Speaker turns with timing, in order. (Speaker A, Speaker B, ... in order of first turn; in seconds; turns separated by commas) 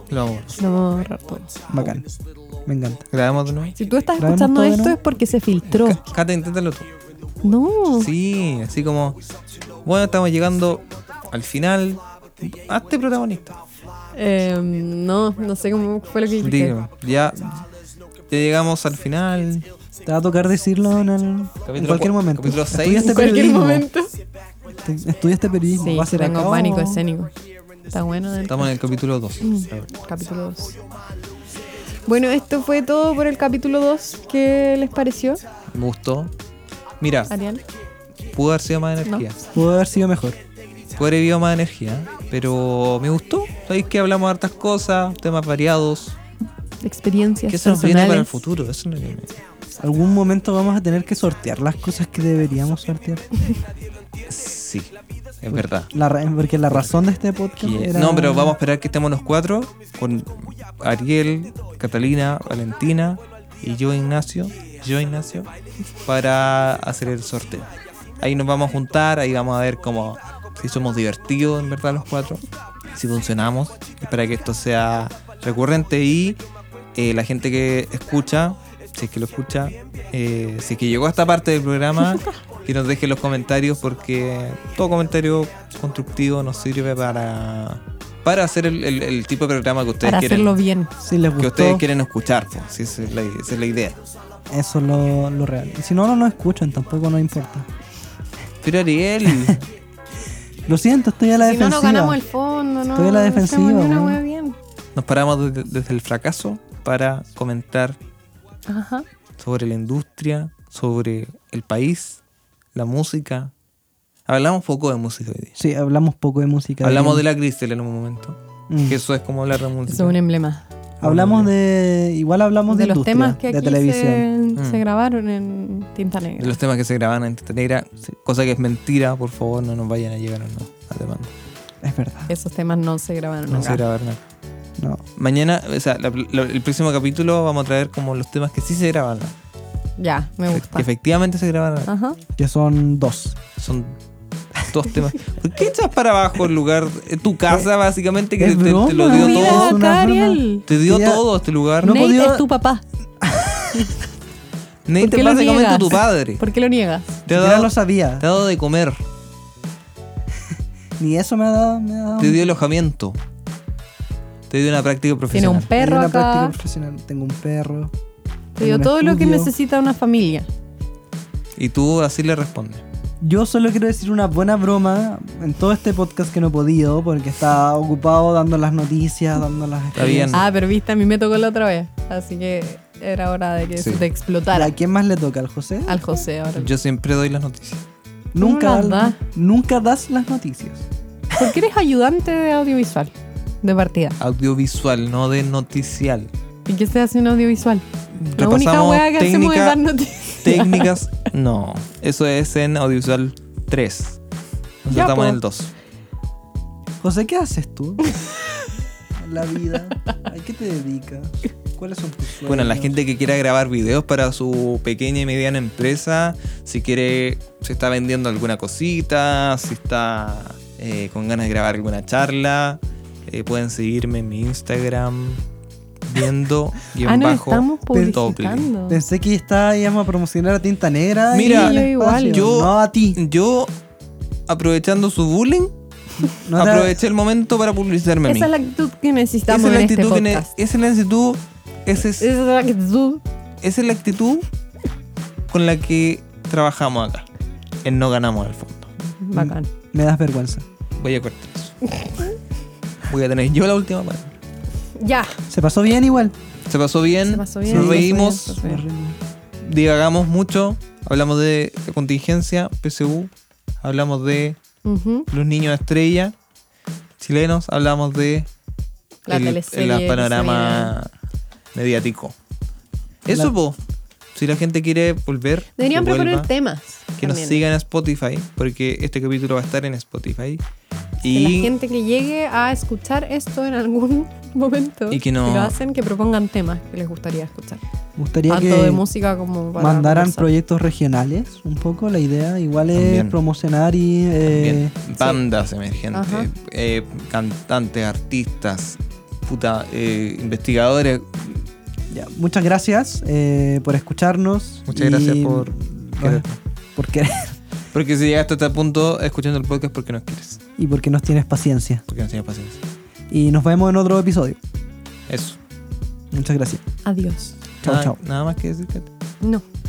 Speaker A: 0.1-0.5, Speaker B: 0.5-1.5, Speaker C: 1.7-2.0, Speaker C: 2.6-3.0, Speaker A: 3.1-3.8, Speaker B: 3.8-6.0, Speaker C: 4.2-5.0, Speaker A: 5.7-6.9, Speaker B: 7.4-8.1, Speaker A: 7.9-9.2, Speaker A: 9.8-13.6, Speaker B: 14.1-16.8, Speaker A: 16.4-17.6, Speaker A: 18.3-19.7, Speaker C: 20.0-23.9, Speaker A: 21.6-23.5, Speaker B: 23.0-24.1, Speaker C: 24.8-27.0, Speaker B: 25.8-27.3, Speaker B: 27.9-28.7, Speaker A: 28.5-29.9, Speaker B: 29.4-30.7, Speaker B: 32.0-35.4, Speaker A: 35.7-36.3, Speaker A: 37.0-37.3, Speaker B: 37.3-37.6, Speaker A: 38.3-39.4, Speaker C: 39.5-40.4, Speaker A: 41.0-46.2, Speaker B: 46.8-48.5, Speaker A: 47.5-49.4, Speaker C: 49.8-53.2, Speaker A: 54.3-55.9, Speaker C: 55.5-58.6, Speaker A: 57.6-65.5, Speaker A: 66.0-67.7, Speaker A: 68.2-72.4, Speaker A: 72.9-76.4, Speaker A: 76.9-90.6, Speaker B: 90.0-90.9, Speaker C: 91.0-91.8, Speaker A: 91.4-94.0, Speaker C: 94.5-97.7, Speaker A: 98.6-99.7, Speaker C: 100.7-102.2, Speaker B: 101.4-104.6, Speaker C: 102.9-104.2, Speaker A: 105.0-108.0, Speaker B: 108.7-109.0, Speaker A: 109.4-112.2, Speaker A: 112.7-113.5, Speaker A: 114.3-115.5, Speaker C: 115.5-117.2, Speaker A: 116.8-120.2, Speaker C: 118.7-119.0, Speaker B: 119.8-120.6, Speaker C: 121.0-124.2, Speaker A: 121.0-121.5, Speaker B: 122.7-126.6, Speaker A: 124.5-124.8, Speaker A: 126.4-131.3, Speaker C: 131.8-132.3, Speaker B: 132.3-133.8, Speaker A: 133.5-134.2, Speaker C: 134.8-135.0, Speaker A: 135.2-139.3, Speaker B: 140.0-140.9, Speaker A: 140.5-141.9, Speaker B: 141.8-142.2, Speaker C: 142.4-143.4, Speaker A: 143.6-144.0, Speaker A: 144.7-149.8, Speaker C: 148.4-151.2, Speaker B: 149.0-150.6, Speaker A: 150.7-151.9, Speaker C: 151.8-152.4, Speaker B: 151.8-152.8, Speaker C: 153.2-153.9, Speaker A: 154.9-156.4, Speaker B: 155.0-157.2, Speaker A: 157.3-159.0, Speaker C: 157.3-158.2, Speaker C: 160.5-162.4, Speaker A: 162.2-163.2, Speaker A: 164.5-165.7, Speaker B: 165.3-166.5, Speaker C: 165.7-167.9, Speaker B: 168.6-170.5, Speaker C: 168.6-169.5, Speaker A: 171.6-172.8, Speaker C: 173.2-180.4, Speaker A: 179.9-180.4, Speaker B: 180.3-184.7, Speaker A: 183.8-184.0, Speaker C: 184.5-186.0, Speaker B: 185.9-186.7, Speaker A: 186.6-187.8, Speaker C: 188.3-190.8, Speaker B: 188.4-189.2, Speaker B: 191.3-194.2, Speaker A: 194.2-196.3, Speaker B: 196.7-200.9, Speaker A: 198.2-199.8, Speaker A: 200.4-204.2, Speaker A: 204.8-205.7, Speaker B: 204.9-205.4, Speaker C: 207.0-208.1, Speaker C: 209.2-213.0, Speaker A: 212.4-225.4, Speaker A: 226.1-228.7, Speaker B: 227.0-229.0, Speaker C: 228.9-233.2, Speaker A: 231.3-233.7, Speaker B: 231.3-232.4, Speaker A: 234.5-235.7, Speaker C: 236.4-237.0, Speaker A: 236.5-238.5, Speaker B: 238.3-240.5, Speaker A: 239.5-242.3, Speaker B: 242.0-243.2, Speaker A: 243.6-244.4, Speaker A: 245.5-247.2, Speaker A: 247.8-248.9, Speaker B: 249.1-249.7, Speaker C: 249.3-250.6, Speaker A: 251.0-252.0, Speaker B: 251.9-252.3, Speaker A: 253.0-254.3, Speaker B: 255.0-255.4, Speaker C: 255.5-256.3, Speaker A: 256.7-258.6, Speaker B: 257.2-258.8, Speaker C: 257.6-259.2, Speaker A: 259.6-263.3, Speaker A: 263.8-264.6, Speaker B: 264.8-265.3, Speaker A: 265.3-266.3, Speaker A: 267.2-268.5, Speaker B: 269.3-270.9, Speaker A: 269.3-271.1, Speaker A: 271.7-272.3, Speaker A: 273.2-273.8, Speaker A: 274.3-276.5, Speaker B: 275.8-277.6, Speaker A: 277.2-280.6, Speaker A: 281.2-281.7, Speaker B: 281.2-287.8, Speaker A: 285.1-285.7, Speaker C: 288.2-289.0, Speaker B: 288.5-290.5, Speaker C: 289.8-294.9, Speaker A: 292.9-293.4, Speaker A: 294.4-301.7, Speaker B: 296.1-296.5, Speaker C: 302.1-306.4, Speaker A: 304.9-306.6, Speaker C: 306.9-307.6, Speaker A: 307.9-310.6, Speaker C: 310.8-312.0, Speaker A: 312.1-312.8, Speaker C: 313.3-314.6, Speaker A: 315.3-315.6, Speaker C: 316.3-316.8, Speaker B: 317.0-317.6, Speaker C: 317.8-318.2, Speaker A: 317.8-319.1